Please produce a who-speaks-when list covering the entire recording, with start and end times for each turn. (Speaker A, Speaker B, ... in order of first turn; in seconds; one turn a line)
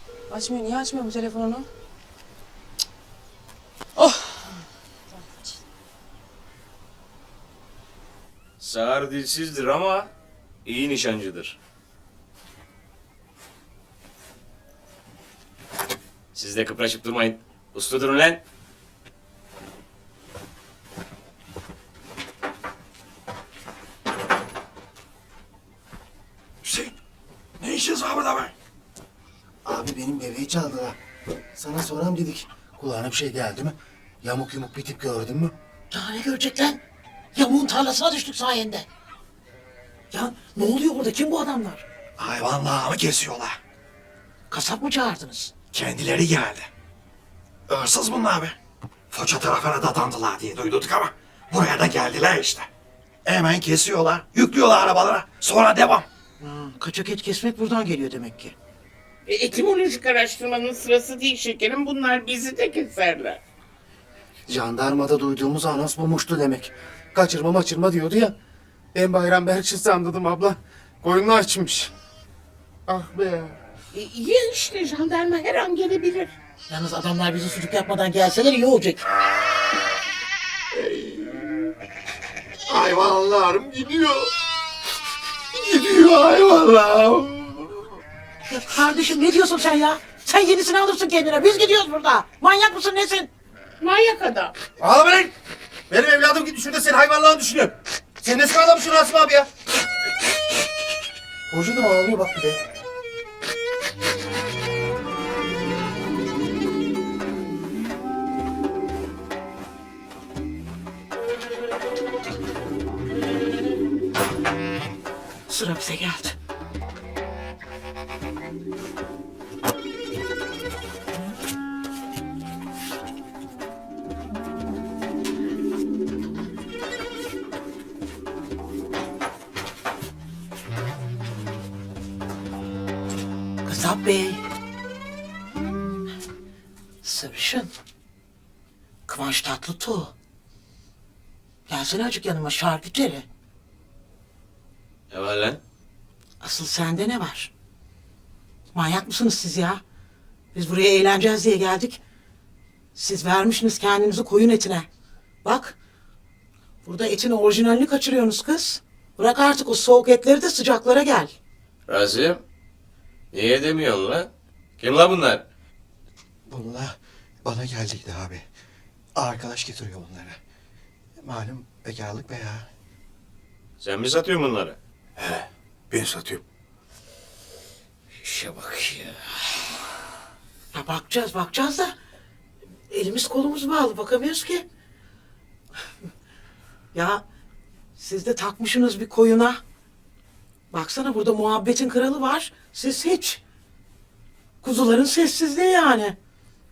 Speaker A: 0.3-1.7
Speaker A: 4.0-4.5
Speaker B: 8.6-10.1
Speaker B: 10.7-11.6
Speaker B: 16.3-18.4
Speaker C: 26.6-26.9
Speaker C: 27.6-28.5
Speaker D: 29.6-31.0
Speaker D: 31.5-35.5
Speaker E: 35.9-36.8
Speaker E: 37.3-38.9
Speaker E: 40.1-41.8
Speaker C: 42.2-43.6
Speaker E: 44.5-45.5
Speaker C: 45.7-46.7
Speaker C: 47.7-48.5
Speaker C: 49.1-52.7
Speaker C: 53.2-56.0
Speaker E: 56.4-58.5
Speaker F: 59.3-63.4
Speaker D: 64.5-68.3
Speaker D: 68.9-71.9
Speaker D: 72.9-73.5
Speaker F: 73.9-76.3
Speaker E: 76.7-79.1
Speaker D: 82.7-84.3
Speaker D: 85.5-87.7
Speaker E: 88.5-93.3
Speaker F: 93.8-94.5
Speaker D: 94.8-95.3
Speaker D: 95.9-99.5
Speaker D: 101.5-102.7
Speaker E: 115.5-116.3
Speaker E: 133.6-134.4
Speaker E: 137.0-137.7
Speaker E: 139.1-140.1
Speaker E: 141.7-143.2
Speaker B: 145.1-145.6
Speaker E: 146.4-147.5
Speaker E: 148.7-149.8
Speaker E: 150.5-152.0
Speaker E: 152.9-154.9
Speaker E: 155.4-155.8
Speaker E: 156.8-161.3
Speaker B: 161.9-162.4
Speaker B: 163.3-165.4
Speaker D: 166.5-166.9
Speaker C: 167.7-168.2
Speaker D: 169.2-169.7
Speaker C: 169.7-170.1
Speaker D: 171.2-172.6
Speaker B: 173.8-174.8
Speaker D: 175.2-176.4
Speaker B: 178.2-179.2
Speaker E: 180.7-181.9
Speaker E: 182.9-184.7
Speaker E: 186.9-187.2
Speaker E: 187.9-189.6
Speaker E: 190.7-193.4
Speaker E: 194.6-196.2